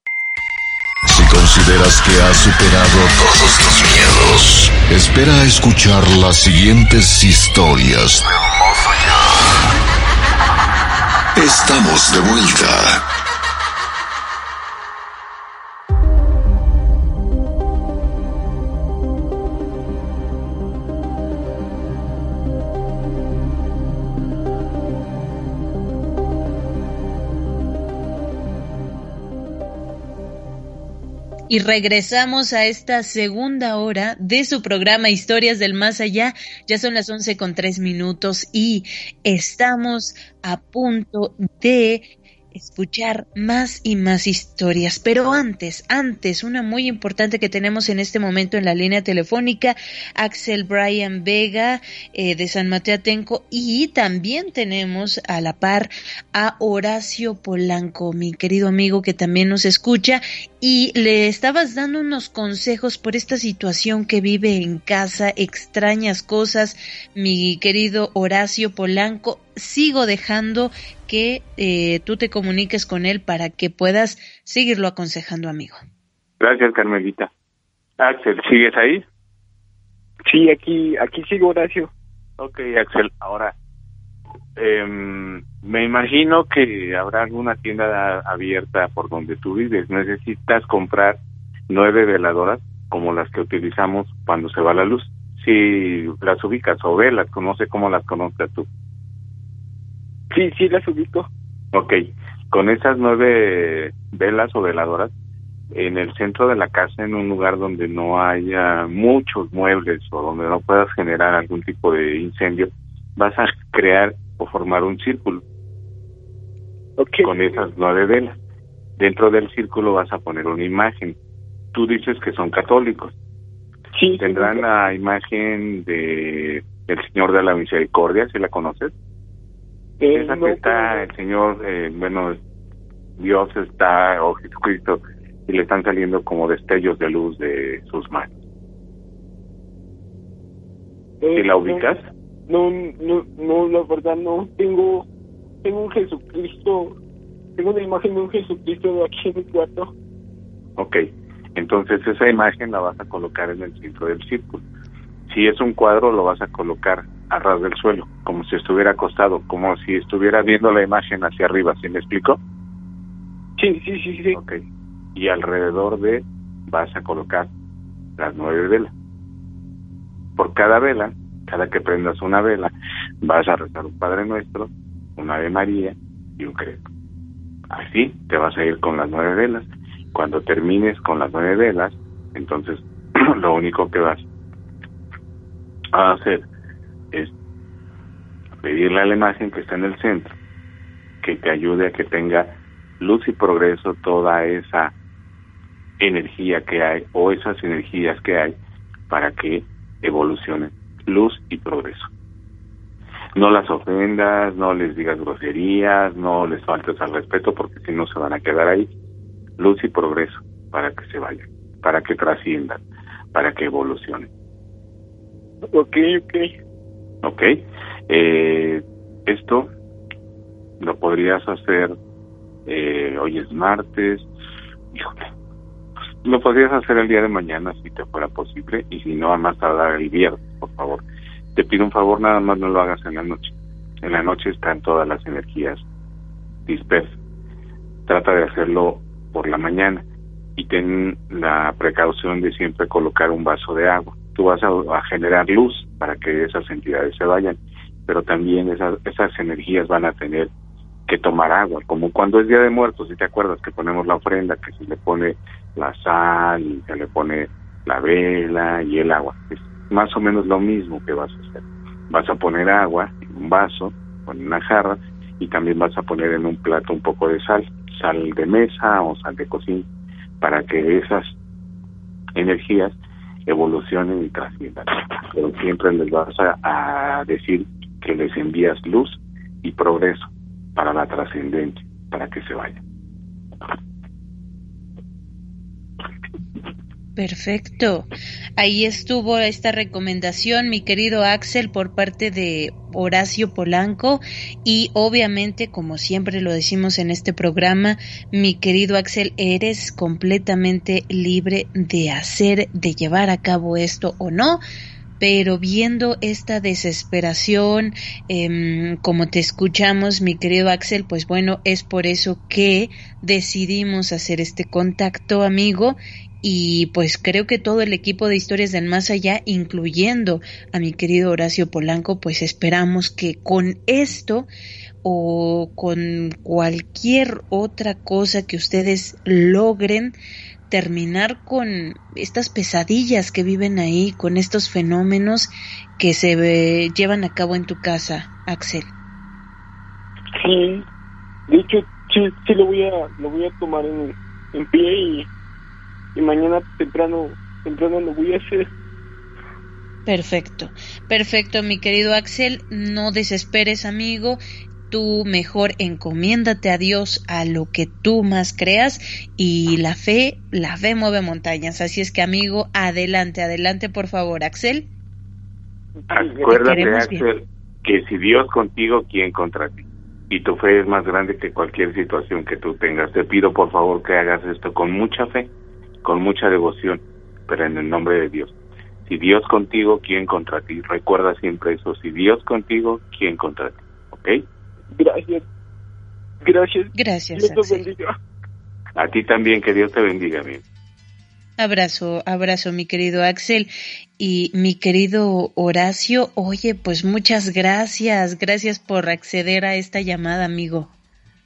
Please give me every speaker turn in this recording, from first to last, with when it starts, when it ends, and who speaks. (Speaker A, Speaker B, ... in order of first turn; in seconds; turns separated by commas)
Speaker A: 1.1-8.3, Speaker A: 11.3-13.0, Speaker B: 31.5-75.8, Speaker C: 76.4-77.3, Speaker C: 78.0-79.0, Speaker D: 80.3-81.9, Speaker C: 82.4-83.5, Speaker C: 84.6-91.2, Speaker C: 91.7-98.7, Speaker D: 100.3-101.3, Speaker C: 101.7-105.1, Speaker C: 105.7-115.4, Speaker D: 117.0-117.6, Speaker C: 117.2-118.4, Speaker C: 119.0-121.2, Speaker C: 121.7-123.1, Speaker D: 123.9-124.6, Speaker C: 124.2-128.9, Speaker D: 130.0-131.1, Speaker C: 130.1-132.4, Speaker C: 133.2-138.3, Speaker D: 141.2-141.9, Speaker C: 141.3-142.1, Speaker D: 142.5-145.1, Speaker D: 145.6-147.0, Speaker D: 147.6-149.9, Speaker C: 150.8-151.0, Speaker C: 151.6-154.6, Speaker C: 155.3-162.4, Speaker D: 163.6-164.4, Speaker C: 165.1-167.5, Speaker C: 168.2-168.9, Speaker C: 170.4-172.7, Speaker C: 173.2-176.8, Speaker C: 177.7-184.2, Speaker C: 185.9-186.4, Speaker C: 188.6-190.4, Speaker C: 191.2-194.9, Speaker C: 196.0-198.6, Speaker C: 199.1-202.1, Speaker C: 203.4-208.9, Speaker C: 209.6-212.8, Speaker C: 213.3-214.3, Speaker D: 215.7-216.5, Speaker C: 217.2-219.7, Speaker C: 220.8-221.9, Speaker C: 222.7-224.3, Speaker C: 224.9-225.3, Speaker C: 226.2-231.0, Speaker C: 231.6-233.5, Speaker C: 234.0-235.8, Speaker C: 236.7-237.2, Speaker C: 238.1-240.0, Speaker C: 240.6-250.5, Speaker C: 251.1-269.9, Speaker C: 270.4-271.4, Speaker C: 272.4-272.9, Speaker C: 273.5-282.8, Speaker B: 287.2-304.6, Speaker B: 305.2-324.5, Speaker B: 325.0-330.2, Speaker B: 330.7-338.9, Speaker D: 340.4-340.9, Speaker D: 341.5-345.3, Speaker D: 346.1-348.7, Speaker B: 350.1-364.9, Speaker D: 366.1-366.7, Speaker C: 366.1-375.5, Speaker B: 366.5-367.3, Speaker C: 376.0-378.6, Speaker C: 379.1-384.4, Speaker D: 384.9-385.4, Speaker D: 386.4-388.1, Speaker B: 386.9-387.9, Speaker C: 388.9-390.6, Speaker B: 391.6-400.9